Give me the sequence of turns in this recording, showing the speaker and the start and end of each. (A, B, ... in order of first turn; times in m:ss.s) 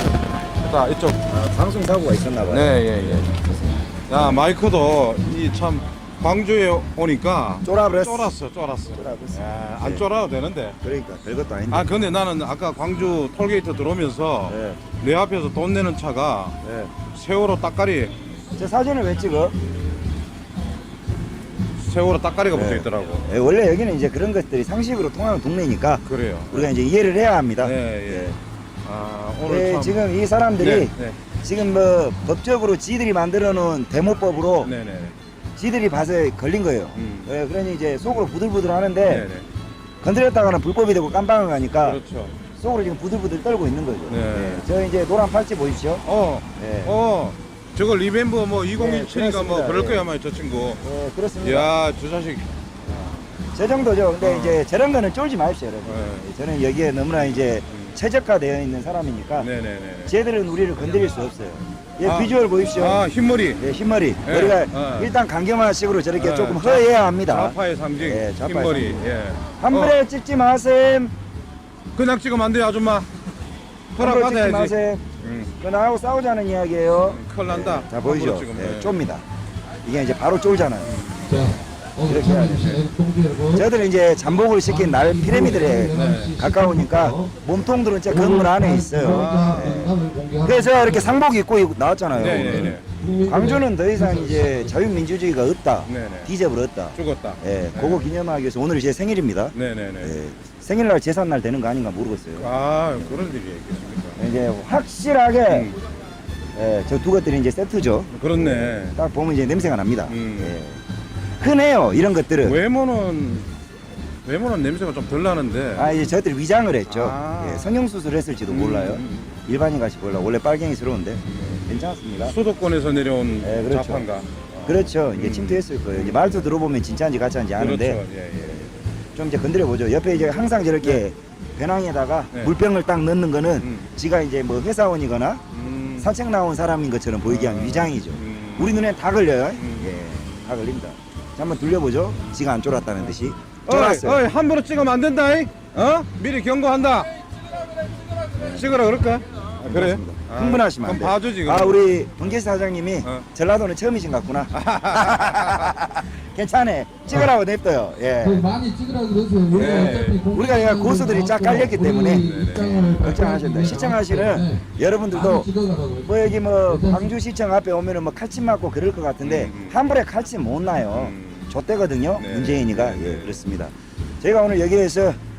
0:00.6-0:01.2 A
0:01.3-0:04.4 B
0:02.5-0:03.3 A
0:04.1-0:10.8 A
0:07.6-0:08.3 B
0:08.9-0:10.0 B
0:10.8-0:11.9 B
0:11.7-0:16.6 A
0:14.5-0:14.8 B
0:16.6-0:16.9 B
0:17.1-0:18.1 A
0:18.6-0:19.6 B
0:21.8-0:23.2 A
0:22.5-0:28.4 B
0:26.0-0:26.7 A
0:27.6-0:30.0 A
0:29.4-0:34.7 B
0:30.6-0:31.2 A
0:34.6-0:35.2 A
0:35.6-0:39.3 B
0:36.9-0:37.3 A
0:39.0-0:39.4 A
0:40.0-0:42.0 B
0:41.8-0:42.4 A
0:42.6-0:46.0 B
0:44.1-0:44.6 A
0:46.0-0:50.8 A
0:46.6-0:46.9 B
0:48.7-0:50.1 B
0:50.8-0:51.7 B
0:51.4-0:53.2 A
0:53.5-0:59.5 B
0:54.2-0:54.6 A
0:55.8-0:56.3 A
0:59.4-1:00.1 A
1:00.1-1:03.0 B
1:02.0-1:03.6 A
1:03.6-1:09.1 B
1:04.2-1:05.1 A
1:06.1-1:10.0 A
1:09.6-1:11.1 B
1:11.9-1:13.1 A
1:13.9-1:15.0 B
1:14.0-1:15.5 A
1:15.6-1:19.2 B
1:17.0-1:19.0 A
1:19.8-1:20.9 B
1:20.8-1:21.4 A
1:21.3-1:23.7 C
1:22.0-1:22.8 B
1:23.5-1:43.3 B
1:24.6-1:27.3 C
1:25.9-1:26.4 A
1:28.1-1:31.2 C
1:29.0-1:29.9 A
1:32.1-1:32.8 A
1:32.2-1:34.7 C
1:35.8-1:36.3 A
1:36.9-1:38.1 A
1:39.5-1:40.2 A
1:42.4-1:44.2 A
1:44.2-1:45.7 B
1:45.5-1:45.8 A
1:46.5-1:50.8 B
1:48.1-1:49.0 A
1:50.1-1:50.5 A
1:51.4-1:52.6 B
1:52.4-1:53.5 A
1:54.2-1:55.9 A
1:55.8-2:02.4 B
1:56.9-1:57.8 A
1:58.5-1:59.3 A
2:01.3-2:01.6 A
2:02.2-2:06.5 A
2:03.4-2:04.1 B
2:04.6-2:15.4 B
2:07.6-2:08.7 A
2:13.6-2:13.9 A
2:15.5-2:16.1 A
2:16.0-2:24.2 B
2:17.2-2:18.8 A
2:19.5-2:20.5 A
2:23.0-2:27.1 A
2:28.3-2:28.7 B
2:28.4-2:31.9 A
2:29.6-2:38.5 B
2:34.5-2:35.7 A
2:38.2-2:47.1 C
2:39.5-2:40.2 A
2:39.6-2:42.3 B
2:42.1-2:43.7 A
2:43.0-2:45.5 B
2:46.0-2:55.2 B
2:49.2-2:49.8 A
2:50.9-2:51.5 A
2:52.2-2:53.5 A